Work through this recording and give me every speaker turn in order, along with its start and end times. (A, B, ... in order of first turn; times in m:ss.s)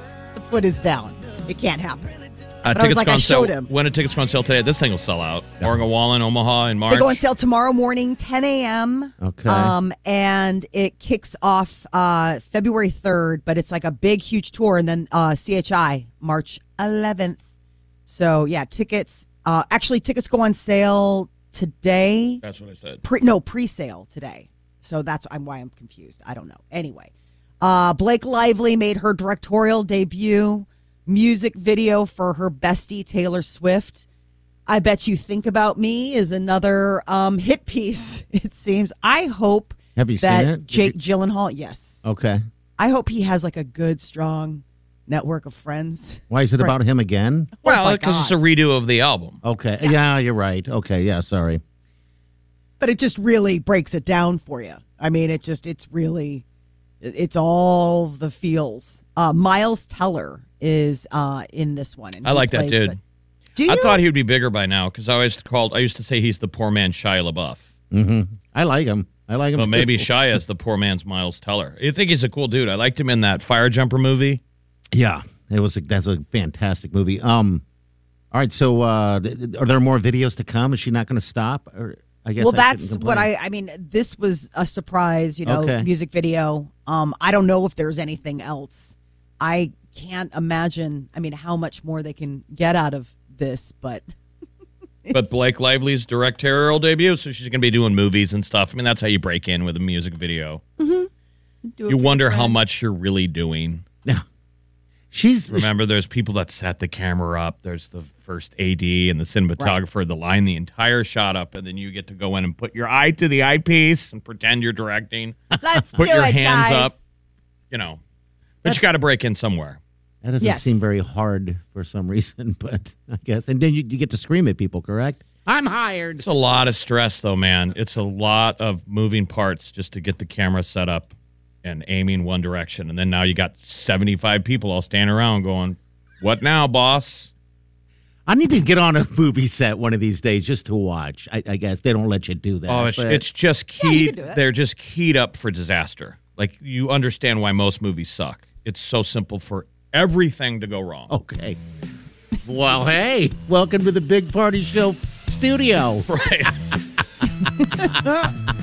0:00.4-0:03.7 A
0:02.6-0:07.2 B
0:06.9-0:17.4 A
0:09.2-0:09.8 C
0:18.1-0:22.4 A
0:22.4-0:23.0 B
0:23.0-0:34.1 A
0:34.7-0:42.1 A
0:40.0-0:41.0 C
0:42.0-0:42.4 C
0:42.8-0:46.8 A
0:46.3-0:47.5 C
0:47.6-0:48.4 A
0:47.6-0:49.4 B
0:49.4-0:51.6 C
0:52.8-0:56.4 A
0:57.0-1:03.0 A
1:02.2-1:03.0 B
1:03.6-1:04.0 A
1:03.7-1:07.7 B
1:07.9-1:10.1 C
1:09.6-1:14.4 B
1:14.9-1:17.6 C
1:18.3-1:23.3 C
1:22.4-1:34.0 A
1:25.5-1:25.9 C
1:35.1-1:35.3 A
1:35.1-1:40.6 B
1:40.8-1:41.1 A
1:41.6-1:42.6 A
1:41.9-1:43.8 B
1:45.1-1:45.7 C
1:45.5-1:55.4 B
1:55.6-1:57.0 A
1:56.0-1:56.9 B
1:57.7-1:58.0 B
1:58.6-1:59.8 B
2:00.2-2:06.2 C
2:00.4-2:00.9 A
2:06.2-2:11.1 B
2:11.6-2:17.3 B
2:18.3-2:23.2 C
2:22.7-2:31.1 B
2:23.8-2:24.4 A
2:31.1-2:31.6 C
2:32.4-2:36.3 C
2:36.1-2:36.6 B
2:37.6-2:38.1 A